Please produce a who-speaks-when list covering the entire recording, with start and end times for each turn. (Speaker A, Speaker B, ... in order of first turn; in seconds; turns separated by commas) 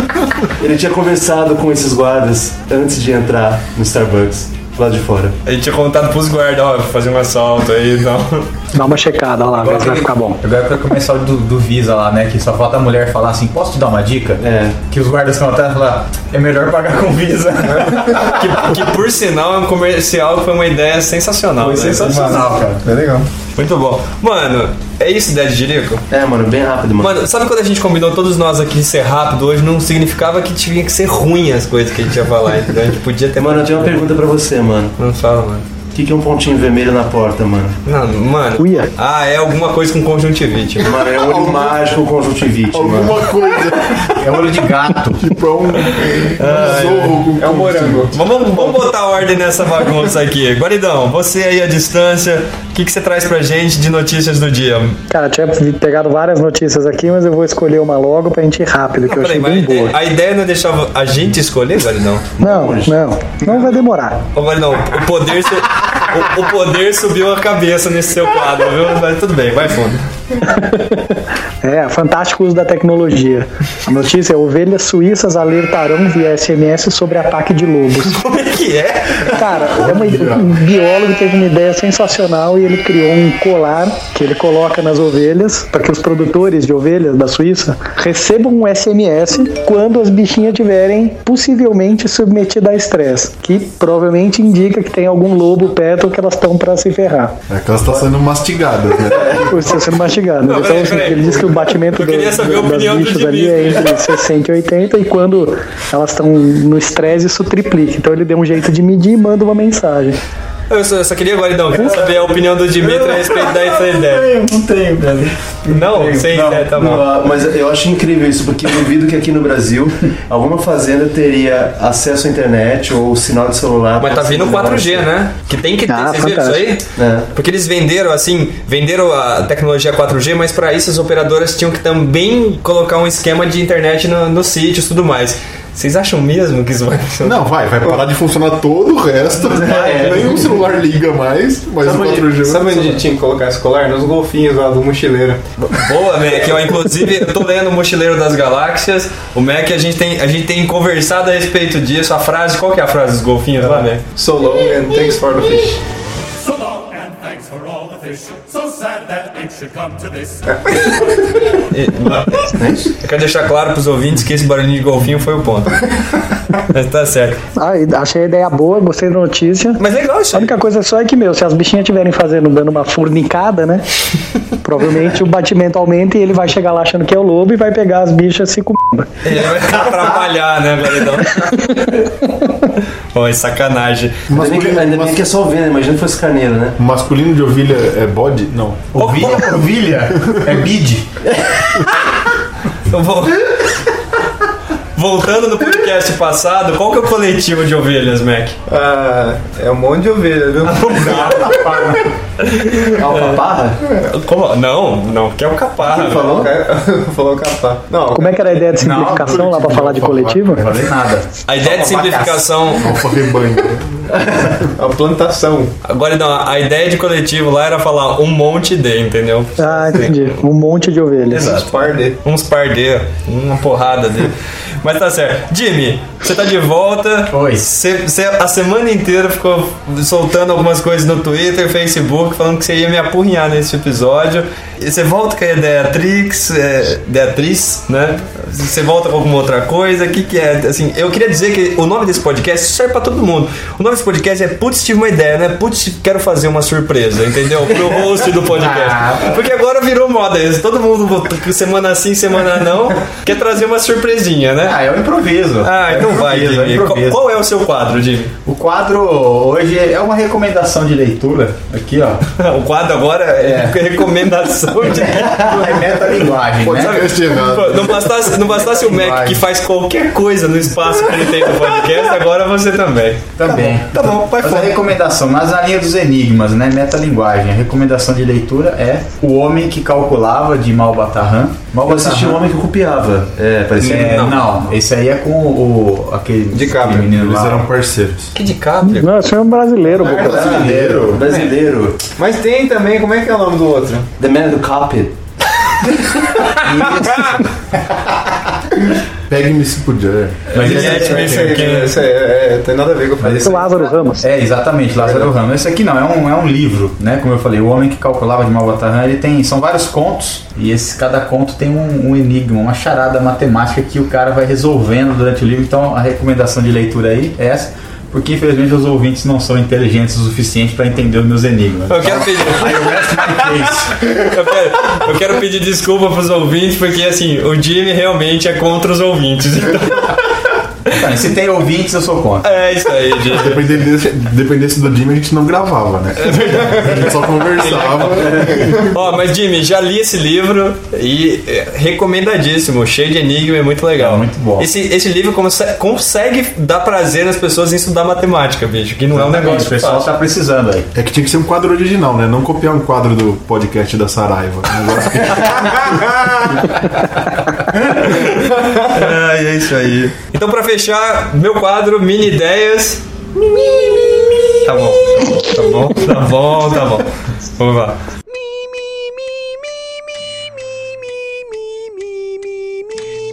Speaker A: 0.6-5.4, Speaker B: 5.5-8.5, Speaker C: 8.7-10.4, Speaker D: 9.6-18.6, Speaker A: 14.4-14.8, Speaker E: 17.6-18.1, Speaker B: 18.2-22.4, Speaker D: 21.6-22.8, Speaker E: 21.7-23.3, Speaker B: 23.6-26.1, Speaker A: 26.1-27.2, Speaker B: 27.0-34.0, Speaker A: 33.4-34.9, Speaker B: 35.0-35.6, Speaker A: 35.9-37.8, Speaker B: 37.9-40.9, Speaker C: 38.6-38.9, Speaker A: 40.8-43.2, Speaker F: 41.1-41.8, Speaker F: 42.7-44.2, Speaker D: 44.2-45.2, Speaker F: 45.2-48.1, Speaker B: 46.4-47.2, Speaker E: 47.4-48.1, Speaker B: 48.1-55.0, Speaker C: 55.1-60.0, Speaker B: 59.0-62.3, Speaker A: 62.4-63.0, Speaker C: 62.4-64.2, Speaker B: 64.3-70.0, Speaker C: 70.4-78.2, Speaker B: 78.0-79.7, Speaker C: 79.3-97.3, Speaker F: 79.8-80.6, Speaker F: 97.5-99.8, Speaker C: 99.4-110.2, Speaker B: 100.4-104.0, Speaker B: 110.7-114.3, Speaker D: 112.8-116.7, Speaker B: 115.7-117.1, Speaker A: 116.3-125.1, Speaker B: 124.0-137.4, Speaker C: 125.9-126.8, Speaker A: 127.0-127.3, Speaker F: 137.2-142.8, Speaker A: 139.6-140.5, Speaker A: 141.9-142.3, Speaker E: 142.3-145.4, Speaker B: 145.7-154.0, Speaker E: 153.6-155.8, Speaker G: 156.4-160.4, Speaker E: 160.6-161.3, Speaker B: 161.6-165.8, Speaker A: 162.6-162.9, Speaker B: 166.6-167.4, Speaker C: 167.6-169.8, Speaker B: 169.8-170.6, Speaker C: 170.3-173.9, Speaker C: 174.6-179.1, Speaker B: 179.2-181.9, Speaker C: 181.4-182.5, Speaker B: 183.1-184.2, Speaker F: 184.3-185.2, Speaker A: 184.3-186.8, Speaker F: 186.8-188.9, Speaker D: 188.9-191.1, Speaker B: 189.0-189.5, Speaker B: 192.9-193.6, Speaker B: 195.0-198.6, Speaker E: 198.7-201.7, Speaker D: 200.6-202.1, Speaker B: 202.4-203.4, Speaker D: 202.8-203.8, Speaker B: 204.0-206.4, Speaker A: 205.9-206.5, Speaker E: 206.1-208.4, Speaker C: 208.2-210.7, Speaker D: 208.8-212.5, Speaker F: 209.5-210.2, Speaker B: 211.5-212.9, Speaker F: 212.8-214.0, Speaker E: 214.8-215.7, Speaker B: 215.8-220.4, Speaker C: 219.6-221.5, Speaker B: 221.3-221.7, Speaker E: 221.3-222.2, Speaker B: 222.2-254.8, Speaker D: 227.3-227.7, Speaker D: 248.5-249.4, Speaker D: 254.6-257.2, Speaker B: 255.6-258.3, Speaker D: 258.4-262.2, Speaker B: 262.4-265.5, Speaker D: 263.4-263.8, Speaker D: 264.8-267.1, Speaker F: 266.6-268.2, Speaker B: 266.8-274.8, Speaker D: 268.5-269.4, Speaker D: 273.4-282.5, Speaker A: 281.9-284.3, Speaker D: 283.8-287.7, Speaker B: 283.8-284.4, Speaker E: 286.5-287.1, Speaker F: 287.1-288.3, Speaker B: 288.3-289.2, Speaker C: 288.8-290.4, Speaker D: 289.9-291.4, Speaker F: 290.0-291.2, Speaker A: 290.2-292.0, Speaker E: 292.2-294.1, Speaker A: 294.2-295.2, Speaker D: 296.6-297.5, Speaker F: 299.3-301.1, Speaker B: 300.5-301.9, Speaker D: 300.5-301.5, Speaker E: 300.6-303.8, Speaker D: 303.2-324.1, Speaker C: 303.4-304.2, Speaker B: 321.9-330.2, Speaker D: 330.9-332.6, Speaker B: 332.4-333.6, Speaker F: 333.2-338.9, Speaker B: 336.2-350.1, Speaker D: 344.0-344.7, Speaker D: 349.1-350.9, Speaker F: 350.9-356.2, Speaker B: 357.8-363.0, Speaker B: 364.6-368.0